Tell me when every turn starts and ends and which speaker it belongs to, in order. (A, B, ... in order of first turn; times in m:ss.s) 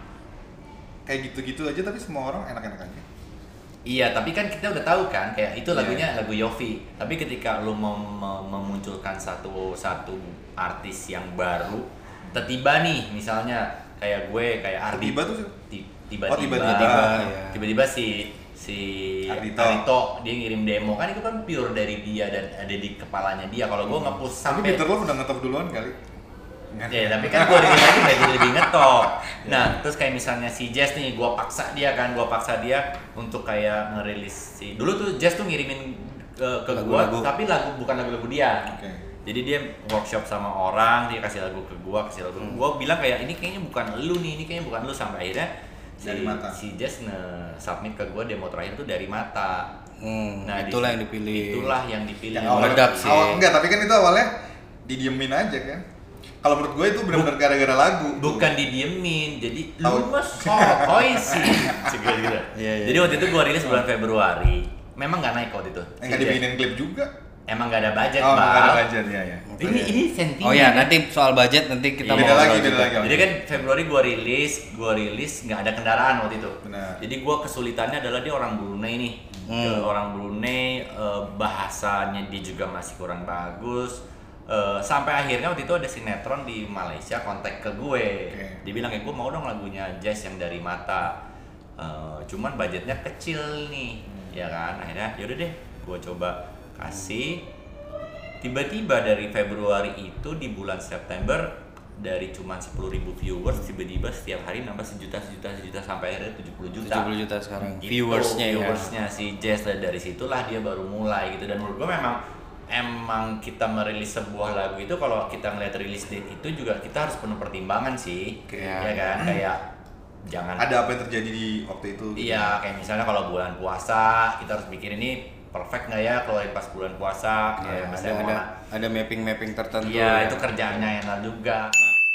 0:01.0-0:03.0 A
0:03.8-0:24.8 B
0:05.7-0:06.0 A
0:14.9-0:15.5 A
0:16.3-0:17.3 A
0:16.7-0:17.7 C
0:19.3-0:19.8 A
0:23.9-0:26.0 A
0:26.7-0:28.9 A
0:26.9-0:38.7 B
0:29.4-0:29.8 A
0:36.7-0:37.3 C
0:38.7-0:39.0 A
0:39.2-0:49.7 B
0:46.0-0:46.6 A
0:50.0-0:51.8 C
0:50.4-0:53.2 B
0:52.3-0:54.3 A
0:52.4-0:53.4 C
0:54.8-0:55.8 A
0:56.4-0:58.5 A
0:58.2-1:06.4 B
0:59.8-1:01.9 A
1:02.5-1:03.4 C
1:06.0-1:07.1 A
1:07.5-1:08.8 B
1:08.2-1:09.9 A
1:09.5-1:13.0 C
1:09.6-1:10.9 B
1:12.0-1:31.1 B
1:12.1-1:13.3 A
1:16.6-1:17.0 A
1:19.5-1:19.9 C
1:28.3-1:28.6 A
1:31.8-1:37.4 B
1:34.1-1:34.4 A
1:38.4-1:47.1 B
1:46.8-1:48.9 C
1:47.6-1:52.2 B
1:52.7-1:59.6 B
1:58.5-1:59.4 A
1:58.5-1:59.2 C
2:00.2-2:00.7 B
2:00.6-2:02.6 A
2:02.2-2:08.5 B
2:07.6-2:10.9 C
2:09.8-2:11.8 B